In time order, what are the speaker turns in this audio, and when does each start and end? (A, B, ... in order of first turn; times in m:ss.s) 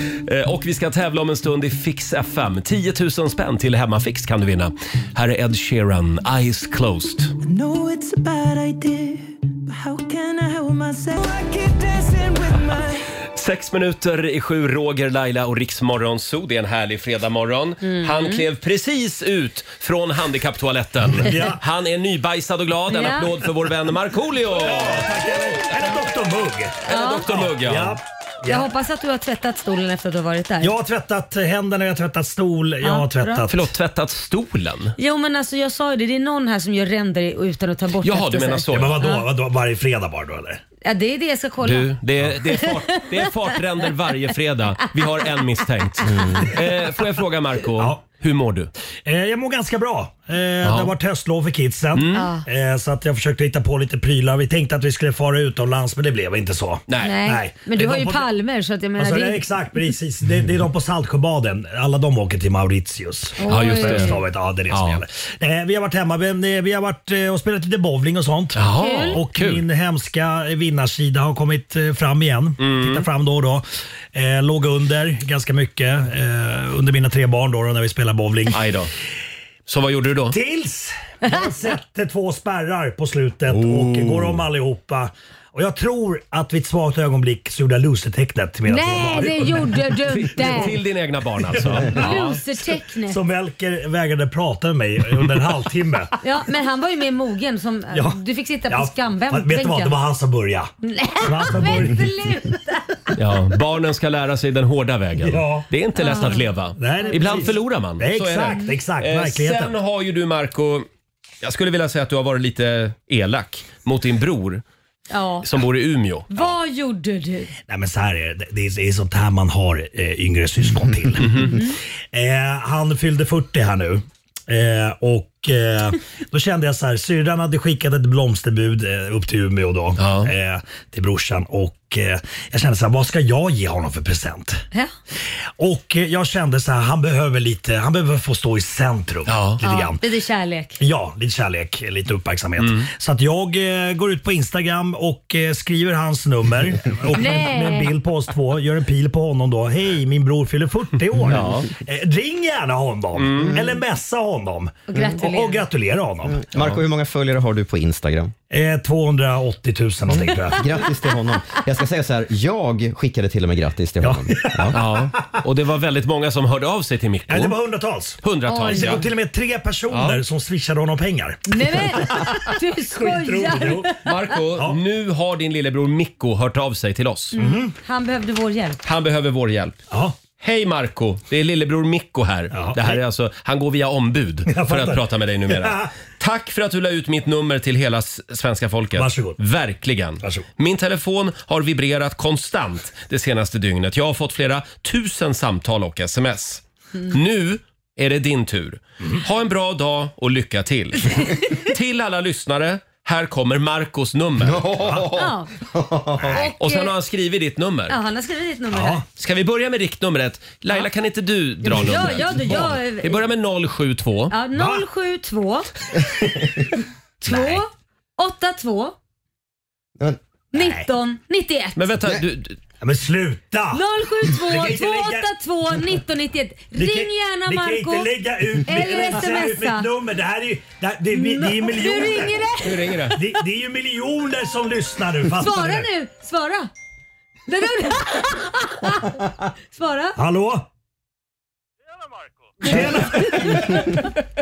0:00.2-0:07.3 A
0:07.4-0:13.0 B
0:13.3-0:25.2 A
0:17.8-0:18.4 C
0:21.1-0:21.6 D
0:22.9-0:23.4 C
0:24.5-0:28.7 D
0:26.8-0:28.0 A
0:26.8-0:27.2 C
0:28.4-0:30.7 C
0:30.6-0:33.7 D
0:32.8-0:33.4 C
0:33.5-0:34.9 A
0:35.0-0:39.3 C
0:38.0-0:39.0 A
0:38.7-0:40.6 D
0:40.8-0:41.9 C
0:41.6-0:48.7 A
0:42.4-0:43.2 C
0:46.0-0:46.6 E
0:49.0-0:58.2 D
0:50.6-0:50.9 A
0:51.9-0:52.3 A
0:52.1-0:52.4 C
0:56.9-0:57.2 A
0:57.0-0:59.5 C
0:59.0-1:18.8 D
1:03.4-1:04.2 C
1:03.4-1:04.1 A
1:04.7-1:05.0 A
1:08.6-1:09.6 A
1:08.8-1:09.2 C
1:12.6-1:13.1 A
1:18.5-1:18.9 A
1:19.7-1:20.4 A
1:20.3-1:29.8 D
1:23.5-1:24.3 E
1:28.7-1:30.8 C
1:30.1-1:32.4 A
1:31.5-1:36.1 D
1:31.9-1:33.2 C
1:36.2-1:39.9 C
1:37.9-1:40.7 D
1:40.8-1:43.1 C
1:41.2-1:42.1 D
1:43.2-1:50.8 A
1:45.2-1:45.6 D
1:45.9-1:46.5 C
1:46.8-1:49.7 D
1:47.0-1:47.5 C
1:51.4-1:54.6 A
1:55.1-1:55.4 C
1:55.4-1:56.4 A
1:56.3-1:57.5 C
1:57.7-2:14.6 D
2:01.2-2:01.5 A
2:10.0-2:10.3 A
2:15.6-2:20.0 D
2:19.3-2:19.6 A
2:19.6-2:20.8 C
2:20.8-2:36.4 D
2:22.6-2:22.9 A
2:27.1-2:27.9 C
2:31.3-2:31.7 A
2:33.1-2:33.6 A
2:33.3-2:33.8 E
2:34.9-2:35.7 C
2:36.2-2:38.3 E
2:38.5-2:40.7 D
2:40.1-2:44.8 E
2:44.0-2:45.0 D
2:44.7-2:47.6 A
2:47.3-2:53.9 D
2:48.2-2:49.1 A
2:48.4-2:49.0 C
2:49.9-2:50.2 A
2:51.5-2:54.1 C
2:54.0-2:57.4 A
2:57.3-2:58.8 C
2:57.3-2:57.7 D
2:58.8-2:59.8 A
2:59.9-3:00.2 D
3:00.4-3:24.7 A
3:02.5-3:03.0 D
3:04.5-3:05.9 D
3:09.0-3:09.4 D
3:24.4-3:26.4 E
3:24.8-3:25.0 D
3:25.1-3:25.5 C
3:26.2-3:26.5 D
3:26.3-3:26.9 C
3:26.6-3:28.0 A
3:27.9-3:29.0 C
3:28.7-3:29.0 D
3:29.2-3:34.3 A
3:31.6-3:33.2 C
3:34.3-3:35.7 C
3:34.5-3:34.8 D
3:37.2-3:39.0 C
3:37.2-3:37.6 D
3:40.5-3:41.8 C
3:40.5-3:40.9 D
3:41.8-3:42.6 A
3:42.8-3:45.3 D
3:43.7-3:48.1 C
3:46.7-3:52.4 D
3:48.6-3:49.9 C
3:51.1-3:53.2 C
3:52.6-3:53.2 A
3:53.1-3:55.9 D
3:55.3-3:56.7 C
3:57.5-4:00.2 C
4:00.2-4:00.6 D
4:02.6-4:04.0 D